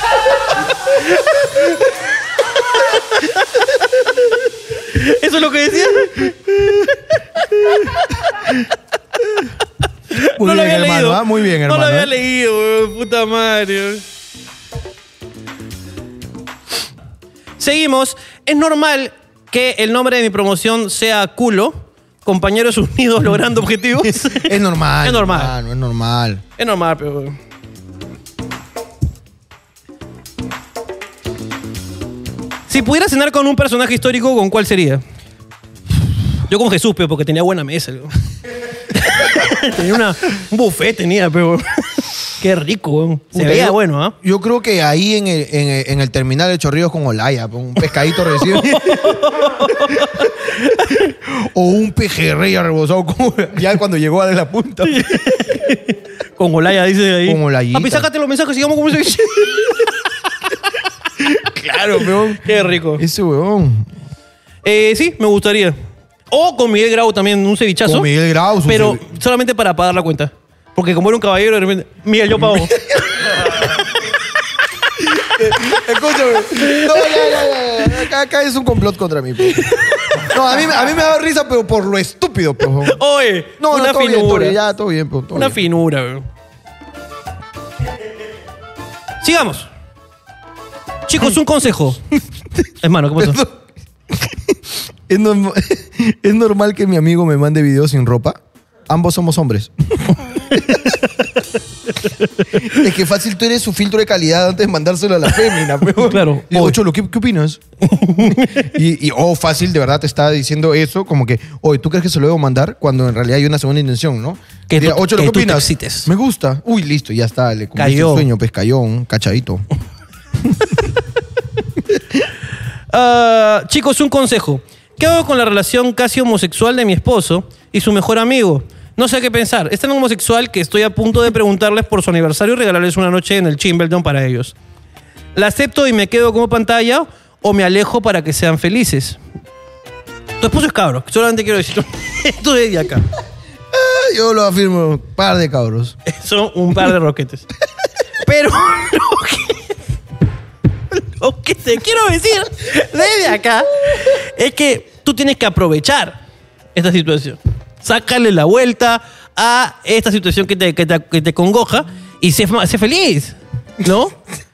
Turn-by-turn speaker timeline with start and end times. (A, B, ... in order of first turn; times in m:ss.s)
0:01.3-0:01.6 A
0:02.8-0:04.3 A
0:04.8-0:08.1 A
0:10.1-0:14.0 A
0:10.4-0:12.1 B
0:17.6-0:25.5 A
0:24.2-0:26.4 B
0:26.6-0:27.4 A
0:32.7-0:35.0 A
0:36.5-0:38.1 A
0:38.9-0:44.2 A
0:43.3-0:50.3 B
0:48.4-0:51.1 A
0:51.2-0:55.4 B
0:54.9-0:59.9 A
0:57.2-0:58.1 B
1:01.2-1:02.4 B
1:02.4-1:03.0 A
1:03.0-1:03.9 B
1:04.6-1:05.8 A
1:06.3-1:08.1 A
1:07.9-1:09.0 B
1:08.7-1:12.8 A
1:12.4-1:13.7 B
1:15.0-1:19.7 B
1:16.6-1:17.3 A
1:19.6-1:20.4 A
1:20.2-1:23.0 B
1:22.8-1:24.6 A
1:23.6-1:25.6 B
1:25.3-1:26.2 A
1:29.2-1:29.7 A
1:31.1-1:32.0 A
1:32.8-1:33.4 A
1:33.2-1:33.6 B
1:34.1-1:41.1 B
1:42.6-1:47.6 B
1:46.0-1:46.8 A
1:47.8-1:48.7 A
1:48.2-1:59.6 B
1:54.7-1:56.1 A
1:57.8-1:58.3 A
2:02.9-2:14.5 A
2:15.4-2:19.2 A
2:20.4-2:23.0 A
2:23.7-2:26.0 B
2:26.1-2:27.5 A
2:28.2-2:29.6 A
2:30.9-2:36.2 A
2:36.8-2:44.2 A